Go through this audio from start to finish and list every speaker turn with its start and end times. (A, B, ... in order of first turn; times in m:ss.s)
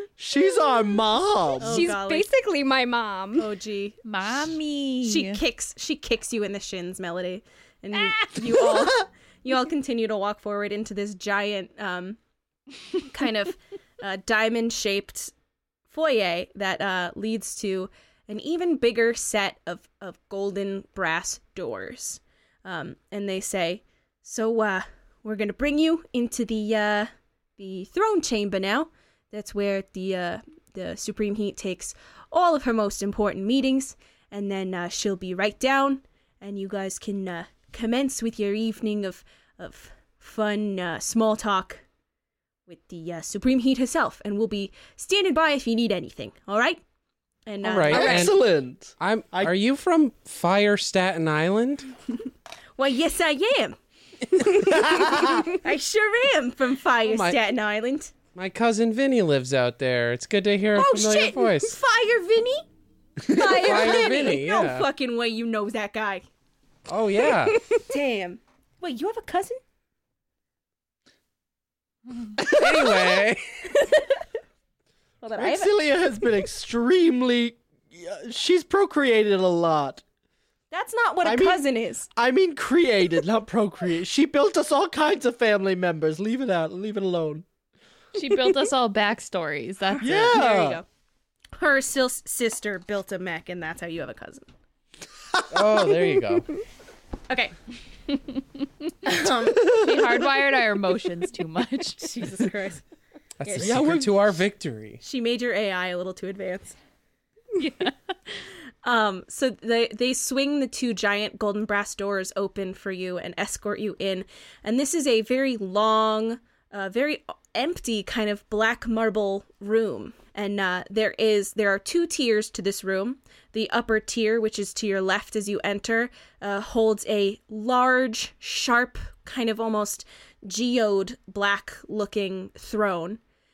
0:00.2-0:01.9 A
0:01.6-0:02.3 B
0:01.6-0:03.5 C
0:03.4-0:04.0 B
0:04.0-0:05.4 D
0:05.0-0:12.2 B
0:08.6-0:08.9 A
0:13.0-0:15.3 B
0:15.9-0:41.8 B
0:42.7-0:46.8 B
0:47.4-0:48.3 B
0:47.6-0:48.4 E
0:47.9-0:49.5 A
0:49.0-0:51.9 E
0:52.8-0:53.8 B
0:54.3-0:58.1 B
0:54.9-0:55.3 A
0:57.0-0:57.4 E
0:58.3-1:01.8 E
1:00.7-1:02.6 B
1:03.3-1:06.2 B
1:03.3-1:04.3 C
1:03.5-1:04.9 E
1:06.9-1:07.6 E
1:07.8-1:09.6 B
1:12.4-1:13.1 A
1:12.4-1:13.4 E
1:13.8-1:14.1 B
1:15.2-1:15.8 B
1:15.3-1:20.0 A
1:20.7-1:22.1 B
1:21.2-1:21.6 A
1:22.1-1:27.4 A
1:28.1-1:30.4 D
1:30.0-1:30.8 B
1:30.0-1:30.8 A
1:31.5-1:34.5 B
1:35.5-1:36.5 E
1:37.3-1:37.5 B
1:39.0-1:39.8 B
1:39.1-1:42.2 D
1:39.7-1:40.1 A
1:42.0-1:42.8 B
1:43.4-1:45.0 E
1:43.4-1:43.8 B
1:43.6-1:44.4 A
1:45.0-1:46.8 B
1:47.6-1:47.9 D
1:48.8-2:13.2 B